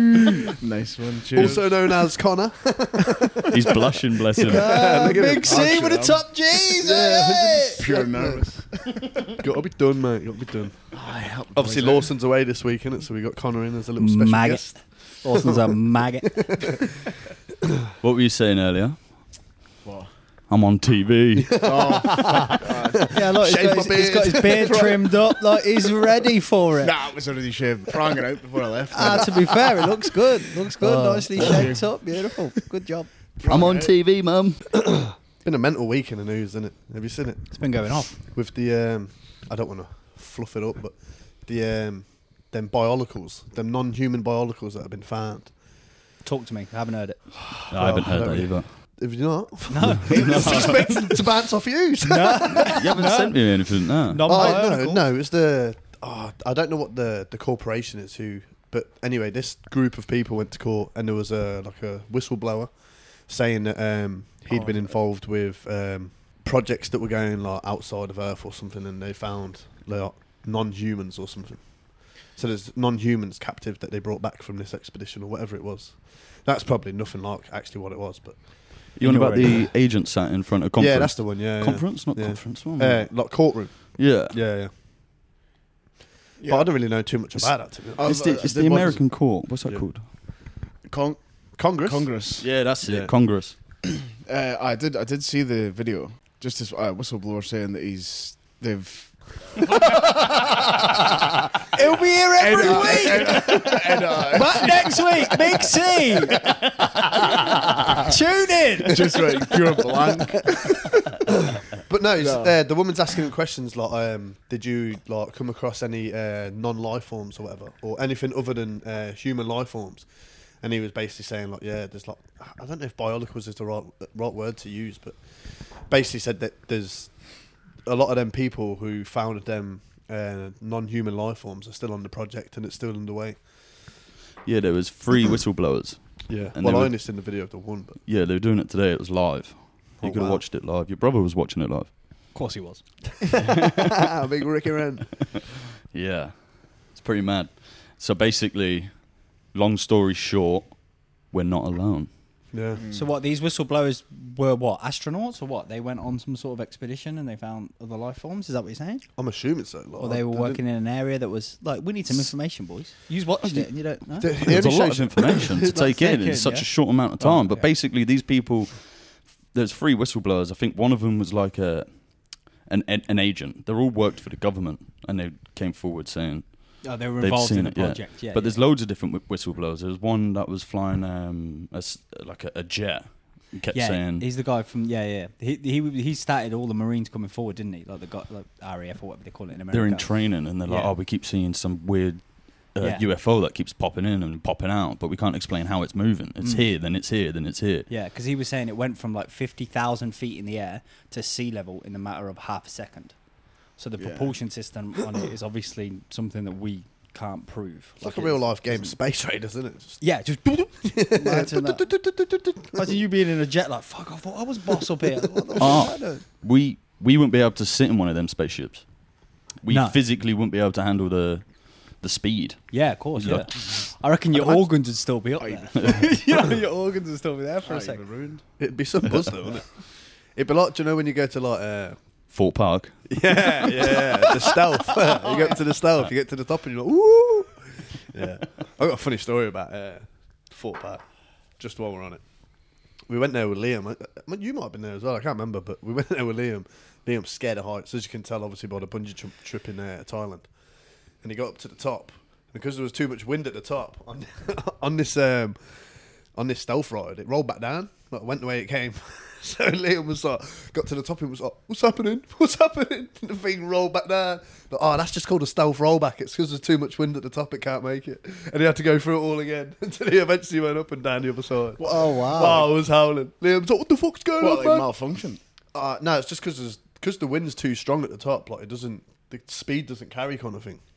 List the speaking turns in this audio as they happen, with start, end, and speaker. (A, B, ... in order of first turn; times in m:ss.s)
0:00.6-0:01.7 A
0:01.4-0:05.8 B
0:03.5-0:04.9 C
0:04.4-0:07.8 D
0:04.9-0:06.3 A
0:06.8-0:08.5 B
0:07.8-0:09.0 A
0:09.3-0:10.9 B
0:10.9-0:12.1 A
0:11.5-0:17.0 B
0:14.0-0:16.6 D
0:18.0-0:19.3 C
0:19.8-0:20.1 A
0:20.5-0:22.1 C
0:21.4-0:25.1 B
0:21.6-0:23.1 A
0:23.1-0:26.9 D
0:24.6-0:25.2 A
0:26.8-0:29.9 A
0:28.9-0:33.1 D
0:30.8-0:31.7 B
0:31.4-0:32.0 A
0:33.4-0:34.0 A
0:33.4-0:34.6 C
0:34.7-0:45.5 B
0:37.5-0:38.2 D
0:46.2-0:47.4 D
0:47.7-0:48.7 C
0:47.7-0:52.8 B
0:49.7-0:50.9 D
0:50.1-0:50.9 A
0:52.0-0:53.6 D
0:52.6-0:54.6 C
0:54.1-0:55.0 D
0:54.2-1:18.4 B
1:04.5-1:05.0 A
1:19.0-1:23.3 C
1:19.0-1:19.7 D
1:20.8-1:24.7 B
1:24.0-1:24.4 C
1:26.4-1:26.7 A
1:26.5-1:28.0 B
1:28.0-1:29.0 A
1:28.0-1:30.1 C
1:30.8-1:32.5 A
1:31.6-1:32.1 B
1:32.4-1:33.5 C
1:32.8-1:33.1 B
1:33.8-1:41.0 A
1:39.9-1:41.1 B
1:41.7-1:46.5 D
1:42.4-1:45.8 A
1:42.5-1:43.7 B
1:47.1-1:48.0 B
1:48.0-1:49.3 D
1:48.9-1:51.2 A
1:51.3-2:00.1 B
1:52.2-1:52.5 A
2:00.6-2:05.2 B
2:05.8-2:07.1 B
2:07.8-2:13.4 B
2:14.4-2:16.0 C
2:16.3-2:18.0 B
2:16.6-2:17.0 C
2:18.1-2:21.9 C
2:20.0-2:20.4 B
2:22.3-2:22.8 D
2:23.3-2:25.2 B
2:23.5-2:24.0 C
2:25.9-2:32.1 C
2:32.5-2:32.8 B
2:32.8-2:33.1 A
2:32.9-2:39.0 D
2:39.2-2:40.6 B
2:40.0-2:44.6 D
2:44.2-2:45.8 B
2:44.5-3:04.3 C
2:45.5-2:47.7 D
2:56.8-2:58.6 D
3:03.7-3:10.9 D
3:09.7-3:17.9 C
3:17.9-3:23.2 D
3:23.8-3:29.0 D
3:24.0-3:24.4 A
3:28.0-3:30.0 B
3:30.0-3:31.9 D
3:30.8-3:32.9 B
3:32.7-3:36.2 D
3:35.3-3:36.0 B
3:35.6-3:38.9 C
3:39.5-3:43.7 C
3:39.7-3:40.0 D
3:42.7-3:48.4 D
3:45.4-3:46.0 A
3:47.6-3:48.4 A
3:48.6-3:49.8 B
3:50.4-3:52.0 B
3:52.3-3:53.0 C
3:53.1-4:01.0 B
4:01.6-4:02.2 B
4:03.1-4:10.5 B
4:11.2-4:15.6 B
4:16.4-4:34.9 B
4:31.8-4:32.2 A
4:31.8-4:32.7 D
4:34.4-4:35.4 A
4:35.7-4:40.8 B